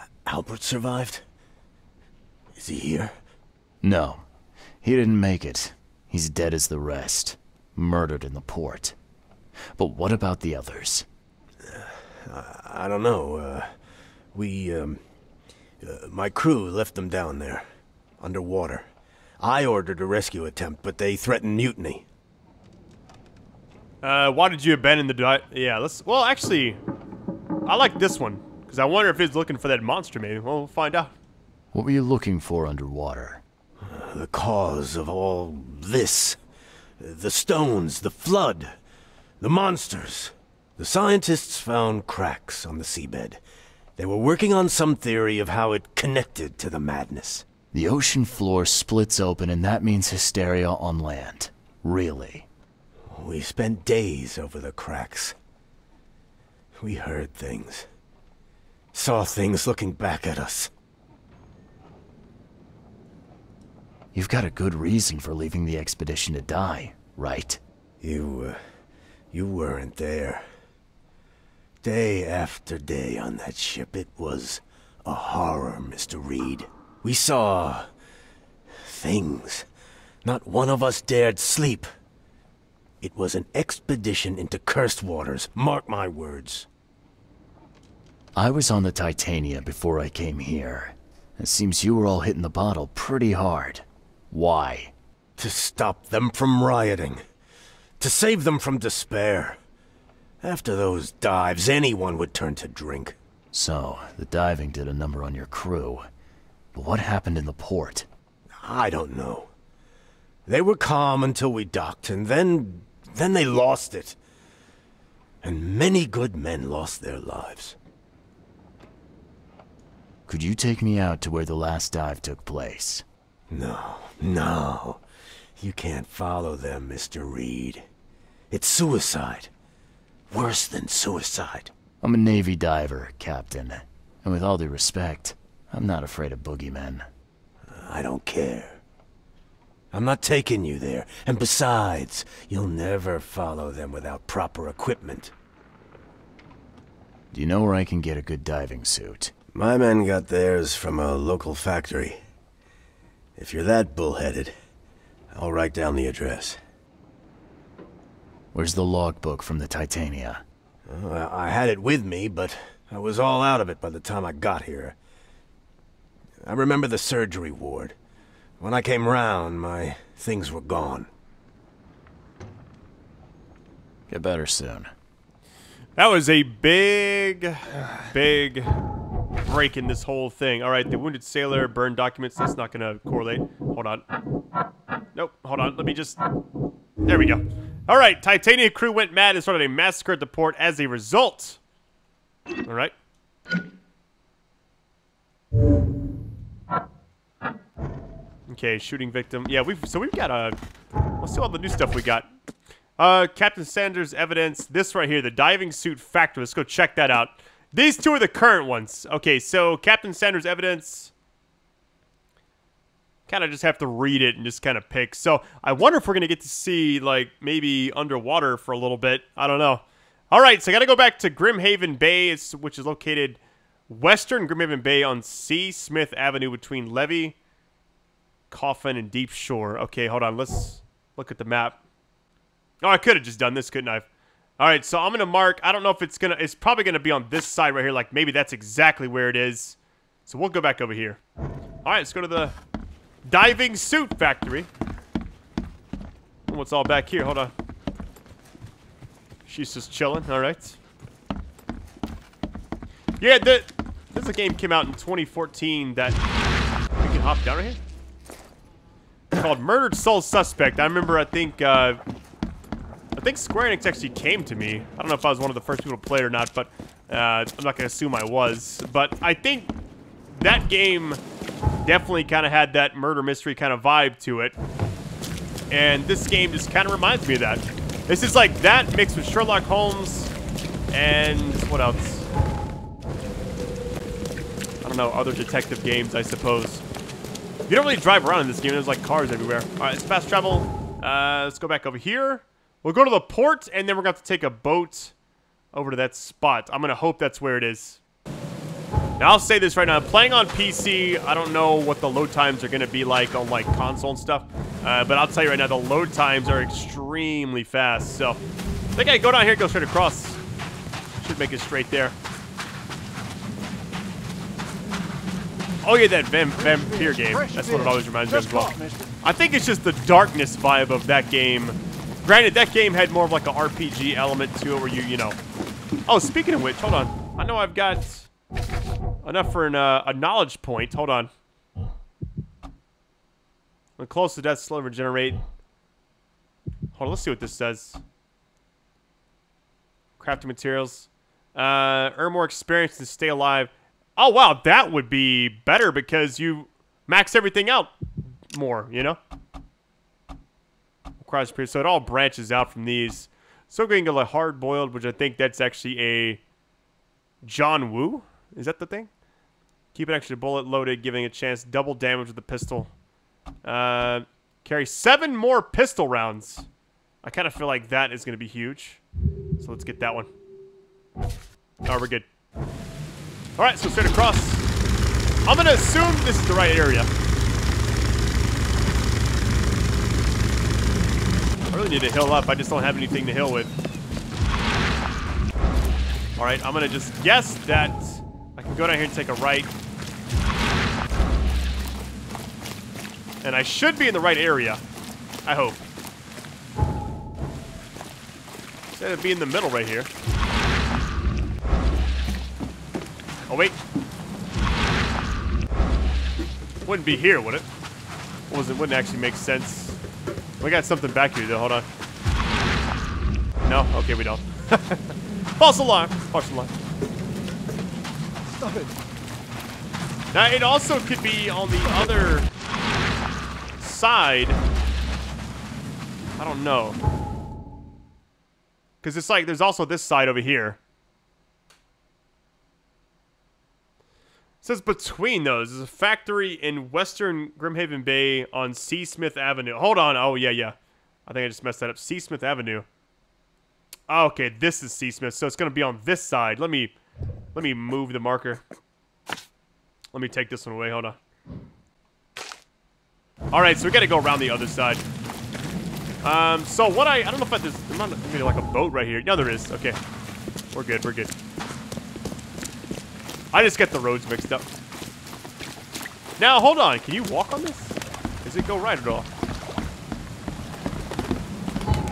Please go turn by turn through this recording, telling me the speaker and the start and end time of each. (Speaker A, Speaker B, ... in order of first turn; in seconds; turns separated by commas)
Speaker A: 0.3-1.2, Speaker A: 2.6-3.1, Speaker B: 3.8-4.2, Speaker B: 4.8-9.0, Speaker B: 9.8-11.1, Speaker A: 11.6-13.7, Speaker A: 14.3-15.0, Speaker A: 15.8-17.7, Speaker A: 18.2-18.9, Speaker A: 19.4-22.1, Speaker C: 24.0-26.8, Speaker C: 27.7-31.1, Speaker B: 31.7-33.4, Speaker A: 33.8-36.4, Speaker A: 37.0-38.7, Speaker A: 39.4-43.4, Speaker A: 44.0-47.5, Speaker B: 47.7-52.5, Speaker A: 53.1-55.4, Speaker A: 56.8-57.9, Speaker A: 58.9-60.7, Speaker B: 64.1-67.6, Speaker A: 68.0-68.6, Speaker A: 69.3-70.5, Speaker A: 71.8-77.9, Speaker A: 78.7-79.7, Speaker A: 80.2-81.9, Speaker A: 83.0-86.7, Speaker B: 88.3-94.9, Speaker A: 95.4-97.2, Speaker A: 98.0-99.6, Speaker A: 100.4-103.2, Speaker B: 103.5-106.1, Speaker B: 106.7-108.1, Speaker A: 108.6-109.5, Speaker A: 110.5-114.2, Speaker A: 115.4-117.8, Speaker B: 120.3-123.0, Speaker A: 123.5-125.0, Speaker A: 125.6-127.9, Speaker A: 128.5-129.5, Speaker A: 130.3-131.7, Speaker B: 132.0-137.1, Speaker A: 137.7-138.8, Speaker A: 139.9-145.3, Speaker B: 147.3-149.3, Speaker A: 149.6-152.2, Speaker A: 153.4-154.6, Speaker A: 155.3-156.6, Speaker B: 158.5-160.4, Speaker A: 160.9-165.0, Speaker A: 166.4-167.9, Speaker A: 168.6-171.1, Speaker B: 174.1-174.9, Speaker C: 176.0-178.7, Speaker C: 179.4-184.1, Speaker C: 185.2-186.2, Speaker C: 187.1-191.6, Speaker C: 192.7-192.9, Speaker C: 198.5-200.6, Speaker C: 201.2-202.3, Speaker C: 203.0-211.1, Speaker C: 213.3-227.4, Speaker C: 228.5-231.8, Speaker C: 232.8-234.1, Speaker C: 234.6-241.2, Speaker C: 241.8-242.6, Speaker C: 243.3-244.7, Speaker C: 246.5-247.5, Speaker C: 249.5-250.8, Speaker C: 253.2-256.2, Speaker C: 257.0-257.8, Speaker C: 259.3-262.0, Speaker C: 263.1-269.7, Speaker C: 270.3-271.2, Speaker C: 271.9-274.6, Speaker C: 275.7-280.3, Speaker C: 280.9-282.3, Speaker C: 284.8-286.8, Speaker C: 287.7-295.1, Speaker C: 295.7-298.0, Speaker C: 299.2-308.4, Speaker C: 309.0-310.4, Speaker C: 311.2-312.2, Speaker C: 315.8-325.4, Speaker C: 326.1-328.3, Speaker C: 329.2-331.3, Speaker C: 334.0-335.4, Speaker C: 336.9-338.0, Speaker C: 340.2-347.9, Speaker C: 348.5-349.2, Speaker C: 351.2-356.4, Speaker C: 357.4-359.1, Speaker C: 359.9-362.9, Speaker C: 363.6-366.7, Speaker C: 367.2-369.0, Speaker C: 369.6-370.3, Speaker C: 371.9-372.3, Speaker C: 373.6-374.6, Speaker C: 375.5-377.1, Speaker C: 381.7-383.7, Speaker C: 386.4-389.7, Speaker C: 393.4-394.8, Speaker C: 395.5-395.8, Speaker C: 398.9-400.1, Speaker C: 403.5-403.8, Speaker C: 406.9-407.7, Speaker C: 408.5-410.0, Speaker C: 410.6-411.9, Speaker C: 413.6-416.7, Speaker C: 420.3-422.5, Speaker C: 423.8-424.6, Speaker C: 426.4-427.0, Speaker C: 429.0-430.8, Speaker C: 434.6-442.9, Speaker C: 444.1-446.9, Speaker C: 447.6-448.6, Speaker C: 450.1-451.2, Speaker C: 453.5-455.0, Speaker C: 456.2-460.0, Speaker C: 460.7-461.3, Speaker C: 463.5-464.7, Speaker C: 466.4-469.3